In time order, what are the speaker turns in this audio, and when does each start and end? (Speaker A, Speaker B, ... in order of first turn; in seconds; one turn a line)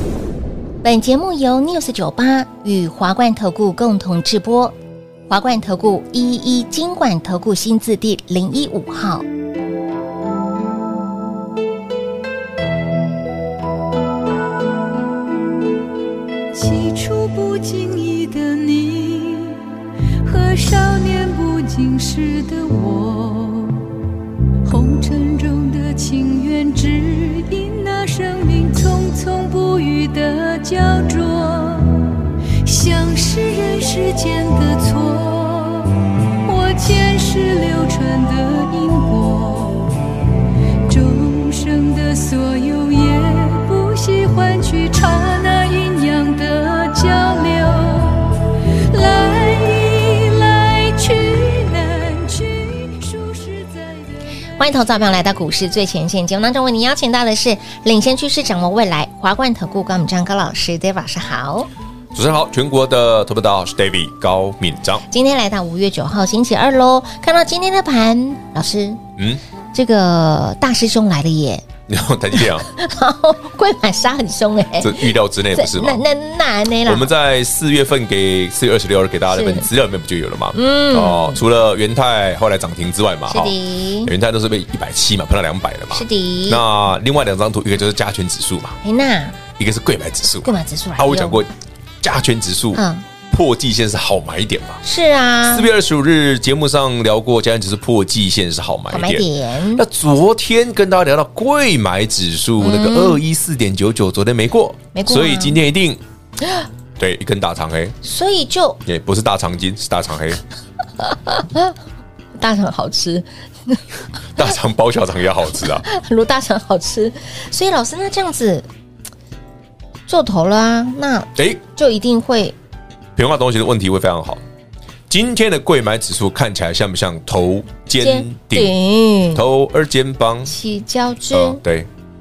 Speaker A: 0.8-4.8
Speaker A: 5.3-9.2
Speaker B: 16.5-19.6
Speaker B: 20.2-23.9
Speaker B: 24.6-40.0
Speaker B: 40.9-54.1
Speaker A: 54.6-61.7
Speaker C: 62.1-65.0
Speaker A: 65.1-69.0
Speaker A: 69.7-71.7
Speaker C: 71.9-72.7
Speaker A: 72.4-77.1
Speaker C: 74.8-76.0
Speaker C: 76.9-88.8
Speaker A: 79.3-79.7
Speaker A: 80.5-81.4
Speaker A: 83.3-84.1
Speaker A: 85.9-86.6
Speaker A: 88.8-89.4
Speaker C: 89.6-91.5
Speaker A: 90.4-91.4
Speaker C: 92.0-94.8
Speaker A: 92.7-93.1
Speaker A: 94.8-95.7
Speaker C: 95.5-106.0
Speaker A: 98.9-99.8
Speaker A: 102.6-103.2
Speaker A: 104.9-105.6
Speaker C: 107.0-108.0
Speaker A: 108.0-108.8
Speaker C: 108.9-110.4
Speaker A: 111.0-111.8
Speaker A: 112.4-113.8
Speaker C: 114.3-115.8
Speaker A: 115.8-118.7
Speaker A: 120.1-122.5
Speaker C: 121.4-121.6
Speaker C: 123.2-124.4
Speaker C: 125.1-128.7
Speaker A: 128.0-129.4
Speaker C: 129.3-130.5
Speaker A: 130.5-131.6
Speaker C: 131.3-131.9